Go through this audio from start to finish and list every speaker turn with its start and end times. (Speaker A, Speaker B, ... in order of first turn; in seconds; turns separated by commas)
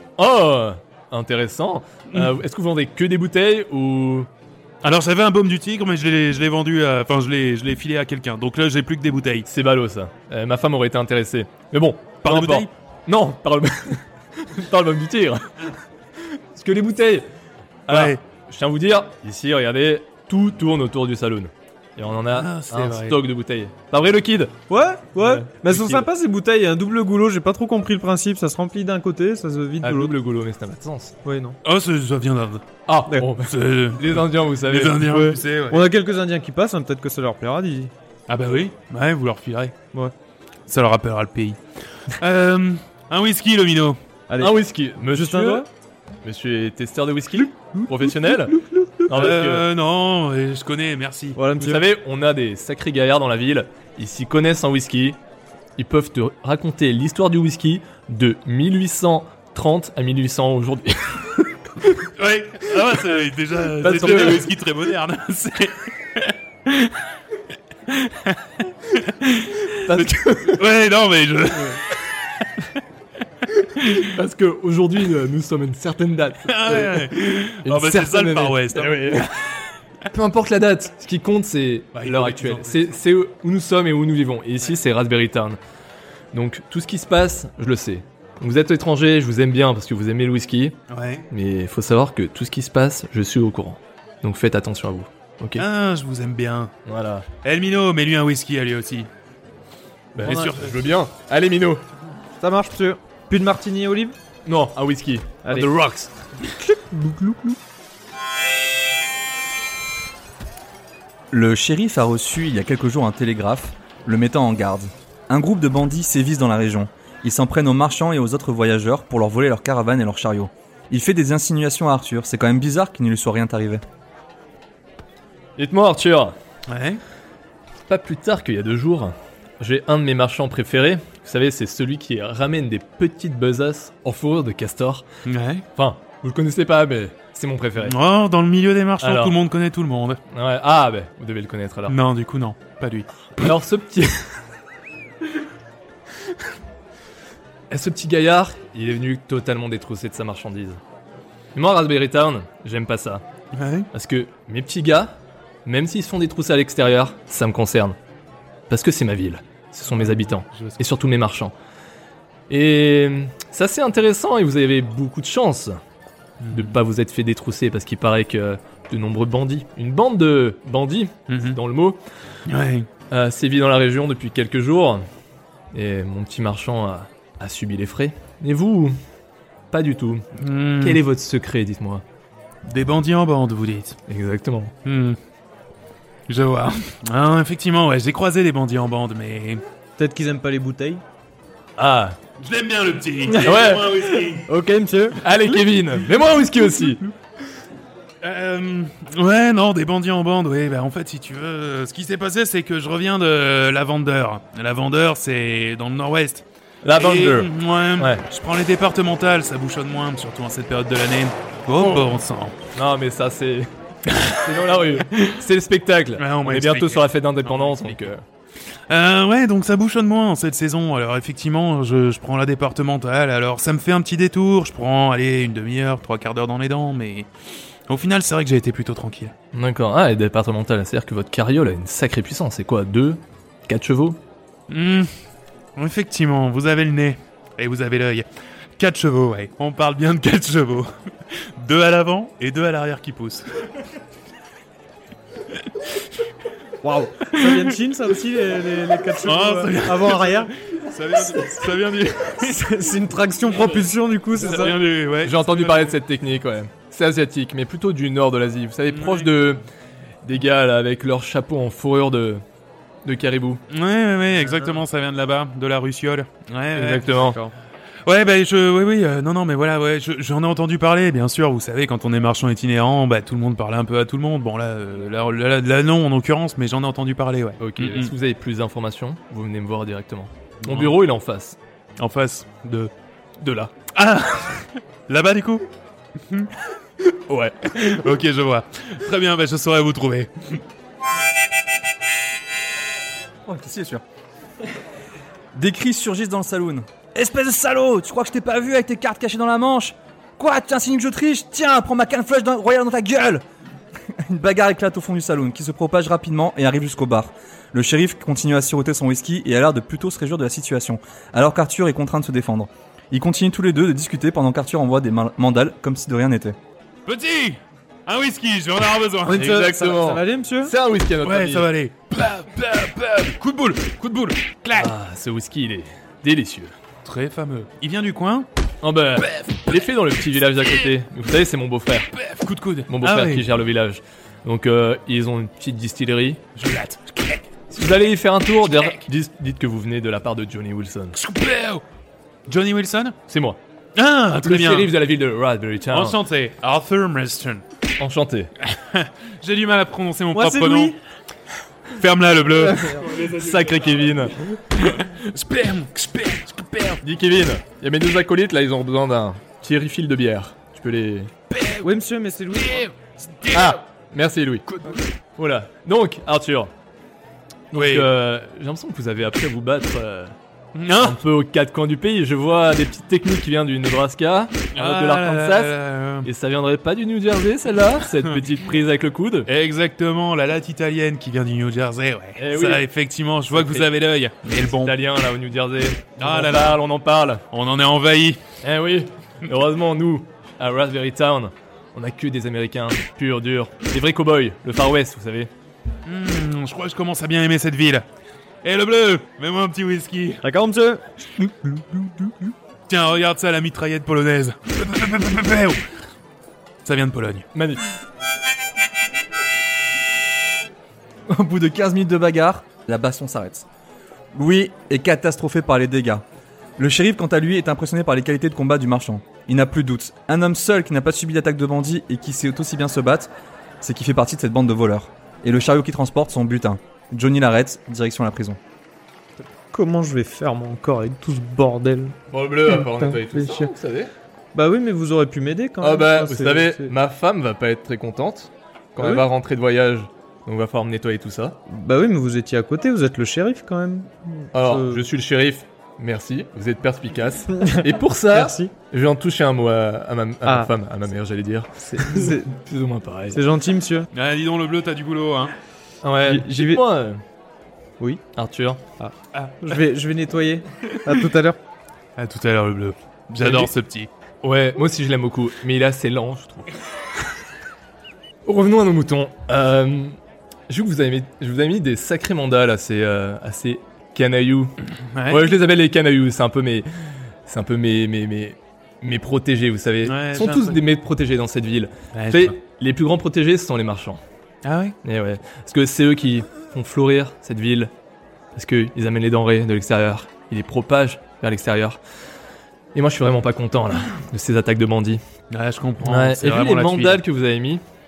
Speaker A: 0.2-4.3, Speaker B: 4.8-9.5, Speaker A: 9.5-15.6, Speaker B: 12.2-12.7, Speaker A: 16.5-17.3, Speaker A: 17.9-24.6, Speaker B: 17.9-18.2, Speaker B: 22.3-23.2, Speaker C: 24.7-30.1, Speaker A: 25.2-26.1, Speaker A: 29.8-31.1, Speaker C: 31.2-31.6, Speaker B: 31.6-32.7, Speaker A: 32.9-35.0, Speaker B: 33.4-35.9, Speaker C: 35.0-37.9, Speaker B: 38.3-39.8, Speaker B: 40.7-44.0, Speaker C: 44.3-45.7, Speaker A: 44.4-45.7, Speaker A: 46.2-49.6, Speaker C: 47.4-49.3, Speaker B: 49.1-51.4, Speaker C: 51.4-51.9, Speaker A: 51.6-55.2, Speaker A: 55.8-61.4, Speaker B: 62.2-67.0, Speaker A: 63.8-64.5, Speaker C: 64.1-64.4, Speaker B: 67.9-71.8, Speaker A: 69.7-70.6, Speaker B: 73.8-74.1, Speaker A: 73.9-79.5, Speaker B: 76.5-79.2, Speaker A: 80.1-85.6, Speaker B: 81.9-83.0, Speaker A: 86.3-90.8, Speaker B: 90.9-91.3, Speaker A: 91.3-95.7, Speaker B: 95.6-96.7, Speaker A: 96.9-97.3, Speaker B: 97.4-99.1, Speaker A: 100.2-101.8, Speaker B: 100.2-100.8, Speaker C: 102.4-104.2, Speaker A: 104.5-106.1, Speaker C: 105.5-105.7, Speaker C: 106.5-107.6, Speaker D: 111.3-123.8, Speaker A: 125.6-126.4, Speaker B: 126.7-127.0, Speaker A: 127.9-135.1, Speaker B: 135.2-135.7, Speaker A: 135.8-138.0, Speaker B: 137.8-140.2, Speaker A: 139.0-139.4, Speaker A: 140.3-142.0, Speaker B: 141.9-143.2, Speaker A: 143.4-144.3, Speaker A: 147.7-150.8, Speaker A: 151.5-153.2, Speaker B: 153.5-153.9, Speaker A: 153.9-158.0, Speaker A: 158.7-161.5, Speaker B: 160.0-160.8, Speaker A: 162.5-165.8, Speaker B: 166.4-166.8, Speaker A: 166.5-172.0, Speaker B: 171.3-171.6, Speaker B: 172.5-172.9, Speaker A: 173.1-175.0, Speaker A: 175.7-179.0, Speaker A: 179.7-180.3, Speaker B: 180.4-181.0, Speaker A: 180.8-182.0, Speaker B: 182.7-184.0, Speaker A: 184.1-184.7, Speaker B: 184.8-185.2, Speaker B: 186.3-189.6, Speaker C: 190.0-191.0, Speaker A: 191.8-192.2, Speaker B: 192.4-194.5, Speaker C: 193.3-193.7, Speaker A: 193.4-193.9, Speaker C: 194.5-195.2, Speaker A: 195.2-197.0, Speaker C: 196.6-196.9, Speaker B: 198.2-206.4, Speaker A: 206.8-208.2, Speaker B: 207.0-212.6, Speaker A: 211.8-212.1, Speaker A: 212.7-213.7, Speaker B: 214.1-214.4, Speaker A: 214.3-218.2, Speaker B: 215.0-215.4, Speaker B: 216.2-218.1, Speaker B: 218.9-227.3, Speaker B: 227.9-229.3, Speaker A: 229.5-234.2, Speaker B: 234.7-235.1, Speaker B: 235.8-238.3, Speaker B: 238.8-240.9, Speaker B: 241.6-243.7, Speaker C: 246.8-250.5, Speaker B: 247.3-247.8, Speaker B: 249.1-252.7, Speaker C: 252.4-254.8, Speaker B: 254.3-256.0, Speaker A: 255.2-259.6, Speaker B: 258.9-259.3, Speaker A: 260.2-262.4, Speaker A: 263.1-263.6, Speaker B: 263.7-267.2, Speaker A: 266.7-267.4, Speaker C: 267.2-267.5, Speaker B: 268.1-278.1, Speaker A: 277.6-281.6, Speaker B: 280.6-280.9, Speaker B: 282.0-282.9, Speaker A: 283.4-283.7, Speaker B: 283.9-285.6, Speaker A: 287.3-287.8, Speaker B: 287.7-290.6, Speaker D: 293.5-294.0, Speaker D: 295.5-303.4, Speaker D: 304.1-316.6, Speaker B: 317.1-319.6, Speaker C: 319.3-320.7, Speaker A: 319.3-321.7, Speaker B: 321.2-324.9, Speaker A: 324.8-326.7, Speaker B: 327.1-328.5, Speaker A: 328.8-332.1, Speaker B: 329.2-329.7, Speaker B: 332.1-333.5, Speaker A: 332.9-336.4, Speaker B: 336.6-337.5, Speaker A: 337.7-341.2, Speaker B: 341.1-341.8, Speaker B: 342.5-343.2, Speaker A: 343.3-343.6, Speaker B: 344.0-344.9, Speaker A: 344.4-346.2, Speaker B: 345.9-347.6, Speaker A: 348.0-348.5, Speaker B: 348.7-351.0, Speaker C: 350.3-351.0, Speaker B: 351.9-357.0, Speaker C: 352.6-353.1, Speaker A: 353.1-354.5, Speaker A: 357.0-361.3, Speaker B: 361.5-361.9, Speaker C: 361.8-362.9, Speaker B: 362.5-363.8, Speaker A: 363.5-364.7, Speaker B: 364.7-365.0, Speaker A: 365.4-366.7, Speaker A: 367.7-370.4, Speaker B: 367.7-368.1, Speaker B: 370.8-371.2, Speaker A: 371.0-379.5, Speaker B: 374.7-376.3, Speaker B: 379.5-385.0, Speaker A: 382.4-382.8, Speaker A: 383.5-383.9, Speaker A: 384.6-387.4, Speaker B: 386.2-386.8, Speaker B: 387.5-388.4, Speaker A: 388.6-395.5, Speaker B: 396.1-398.1, Speaker B: 398.6-400.4, Speaker C: 400.4-401.0, Speaker B: 402.9-405.8, Speaker B: 406.9-407.5, Speaker A: 407.5-407.9, Speaker D: 411.3-413.7, Speaker D: 414.3-416.2, Speaker D: 416.8-428.6, Speaker C: 429.7-433.7, Speaker A: 432.3-434.1, Speaker C: 434.5-436.9, Speaker A: 435.8-441.6, Speaker C: 439.0-439.2, Speaker C: 441.7-445.1, Speaker A: 444.5-453.4, Speaker C: 447.5-448.7, Speaker C: 450.5-450.7, Speaker C: 451.8-452.6, Speaker C: 453.3-454.1, Speaker B: 454.1-455.5, Speaker A: 456.0-457.2, Speaker C: 456.2-456.8, Speaker A: 458.4-458.8, Speaker C: 459.0-461.6, Speaker B: 459.3-459.8, Speaker B: 462.2-464.1, Speaker A: 463.4-463.7, Speaker A: 464.4-466.7, Speaker A: 468.4-470.2, Speaker A: 470.7-474.8, Speaker B: 475.1-475.5, Speaker A: 475.3-476.9, Speaker A: 477.4-484.2, Speaker B: 480.1-480.8, Speaker B: 482.1-482.5, Speaker B: 484.6-485.0, Speaker A: 485.0-487.9, Speaker A: 488.6-492.0, Speaker A: 492.9-495.2, Speaker B: 495.5-497.2, Speaker A: 496.0-497.8